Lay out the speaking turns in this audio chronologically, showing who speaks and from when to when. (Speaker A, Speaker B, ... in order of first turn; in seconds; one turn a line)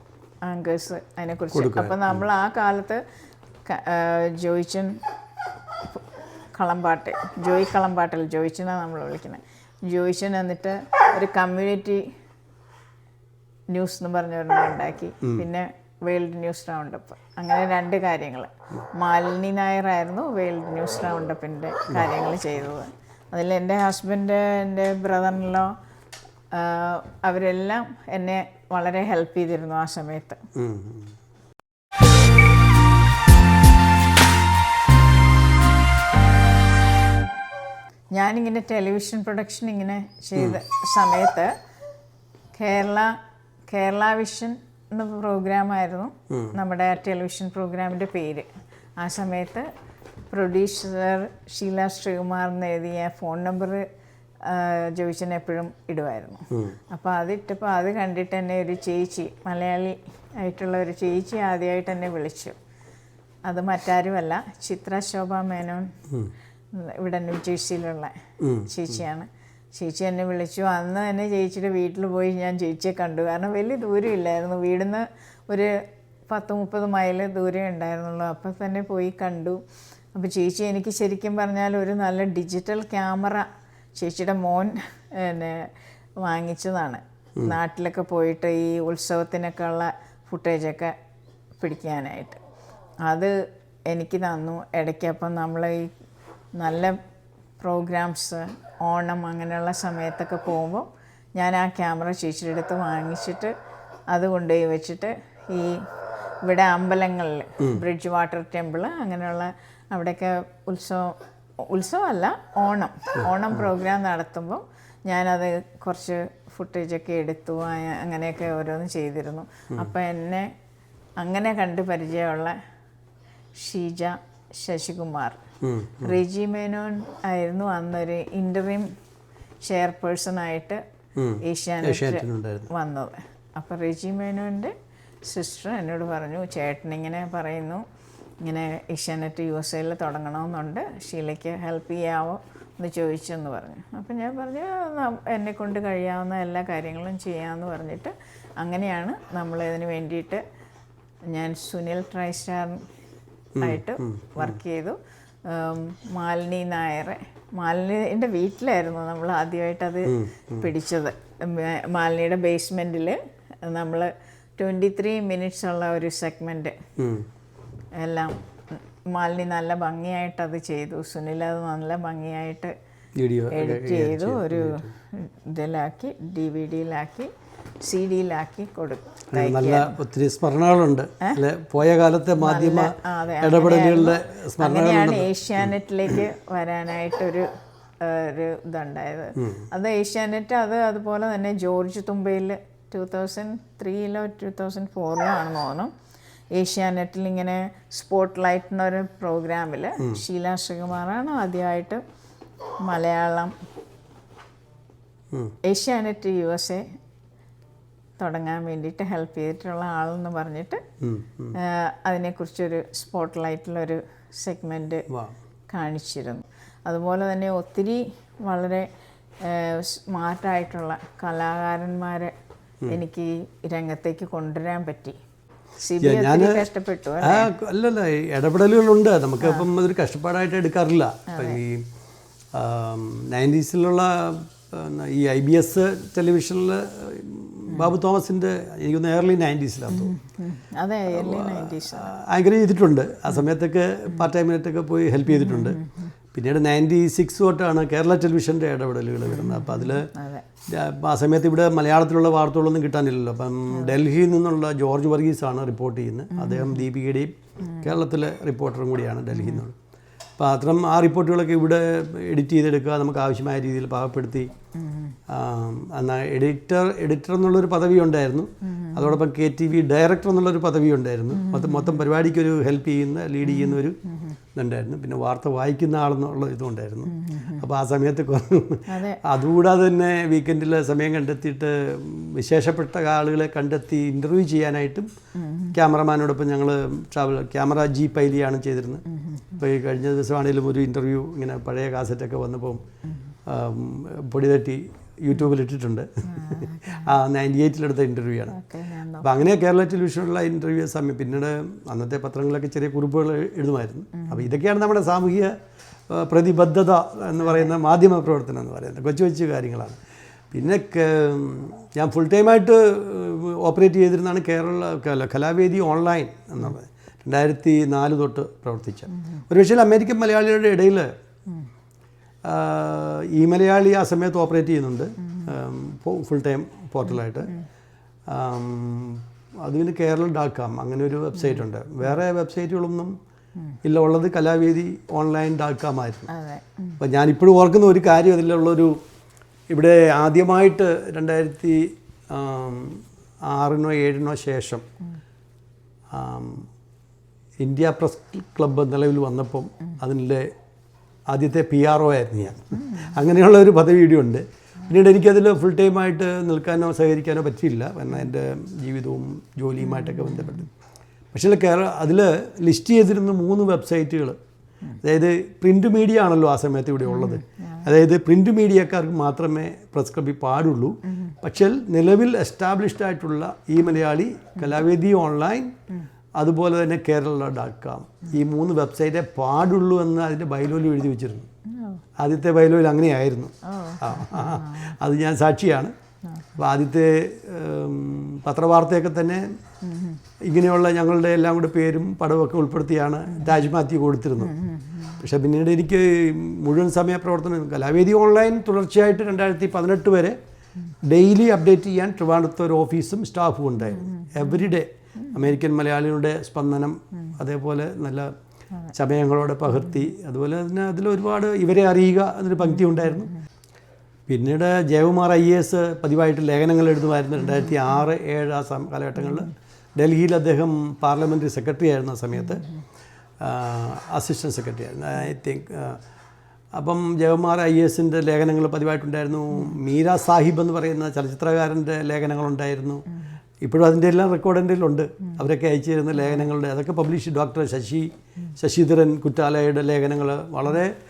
Speaker A: 0.4-3.0
Speaker B: 1.5-2.3
Speaker A: 3.6-5.0
Speaker A: 6.5-12.1
Speaker A: 13.7-25.7
Speaker A: 26.5-30.4
Speaker B: 30.6-31.1
Speaker A: 38.1-41.5
Speaker A: 42.5-48.5
Speaker B: 46.3-46.6
Speaker A: 49.0-49.7
Speaker A: 50.3-53.9
Speaker A: 54.4-62.5
Speaker B: 56.5-56.8
Speaker A: 63.4-65.9
Speaker A: 66.7-79.6
Speaker B: 68.4-68.7
Speaker A: 80.1-90.9
Speaker A: 91.6-92.4
Speaker A: 93.0-93.3
Speaker A: 93.9-95.9
Speaker A: 96.5-97.0
Speaker A: 97.6-103.5
Speaker A: 104.1-105.8
Speaker A: 106.4-120.5
Speaker B: 113.2-113.7
Speaker A: 121.2-122.6
Speaker A: 123.5-125.4
Speaker B: 125.6-126.2
Speaker A: 126.0-128.9
Speaker A: 129.6-130.8
Speaker B: 131.2-132.7
Speaker A: 131.4-134.7
Speaker A: 135.2-137.8
Speaker A: 138.4-150.4
Speaker A: 151.3-152.9
Speaker B: 153.6-154.6
Speaker A: 153.6-166.8
Speaker B: 160.1-160.7
Speaker B: 167.0-167.3
Speaker A: 168.0-172.7
Speaker B: 173.2-174.9
Speaker A: 173.5-177.3
Speaker A: 177.8-180.0
Speaker B: 179.3-186.2
Speaker A: 182.4-195.9
Speaker B: 189.3-189.7
Speaker A: 196.5-202.0
Speaker A: 202.8-203.5
Speaker A: 205.6-206.9
Speaker A: 208.2-210.8
Speaker B: 211.0-211.6
Speaker A: 211.5-215.0
Speaker B: 215.1-215.3
Speaker A: 215.7-218.9
Speaker A: 219.4-222.3
Speaker A: 222.9-225.2
Speaker A: 225.8-227.5
Speaker B: 226.0-226.7
Speaker B: 227.2-231.9
Speaker A: 229.4-229.7
Speaker A: 231.3-231.6
Speaker B: 232.5-240.1
Speaker A: 239.9-242.1
Speaker B: 241.1-245.8
Speaker A: 245.3-246.1
Speaker B: 246.3-250.1
Speaker A: 249.3-250.4
Speaker B: 250.7-259.7
Speaker A: 256.3-256.9
Speaker A: 257.6-257.9
Speaker A: 259.3-259.6
Speaker B: 260.4-264.5
Speaker A: 264.7-265.2
Speaker B: 265.3-274.0
Speaker A: 268.6-269.2
Speaker A: 271.3-272.0
Speaker A: 273.4-274.4
Speaker B: 274.5-285.1
Speaker A: 277.1-277.6
Speaker A: 278.9-279.2
Speaker A: 285.3-285.8
Speaker B: 285.7-289.0
Speaker A: 289.1-289.6
Speaker B: 289.6-292.8
Speaker A: 293.1-293.3
Speaker B: 293.4-298.6
Speaker A: 296.2-297.1
Speaker A: 298.5-299.5
Speaker B: 299.2-305.5
Speaker A: 304.1-304.5
Speaker B: 306.1-310.0
Speaker A: 307.5-307.7
Speaker B: 310.5-321.1
Speaker A: 319.1-319.4
Speaker B: 322.4-327.5
Speaker A: 325.2-325.5
Speaker A: 327.1-327.6
Speaker B: 328.3-333.1
Speaker A: 331.4-331.6
Speaker B: 333.8-336.3
Speaker A: 336.3-337.0
Speaker B: 337.0-339.0
Speaker B: 339.7-344.8
Speaker B: 346.1-346.7
Speaker B: 347.6-350.5
Speaker B: 351.3-360.7
Speaker A: 352.7-353.1
Speaker A: 359.8-360.7
Speaker B: 361.3-364.4
Speaker B: 365.0-375.7
Speaker A: 367.0-367.9
Speaker A: 371.1-371.4
Speaker B: 376.4-381.5
Speaker A: 381.7-382.0
Speaker B: 382.2-385.9
Speaker A: 383.6-384.9
Speaker B: 386.6-389.5
Speaker A: 389.8-390.2
Speaker B: 390.4-394.5
Speaker A: 393.3-393.6
Speaker A: 394.4-395.2
Speaker B: 395.2-400.4
Speaker B: 401.0-408.3
Speaker A: 403.9-404.7
Speaker A: 405.2-405.5
Speaker B: 408.9-413.3
Speaker A: 409.7-410.1
Speaker A: 412.6-413.4
Speaker B: 414.3-422.6
Speaker A: 417.4-417.9
Speaker A: 419.2-419.5
Speaker A: 422.4-422.8
Speaker B: 423.4-426.0
Speaker B: 426.7-433.0
Speaker B: 433.6-441.0
Speaker A: 436.2-436.5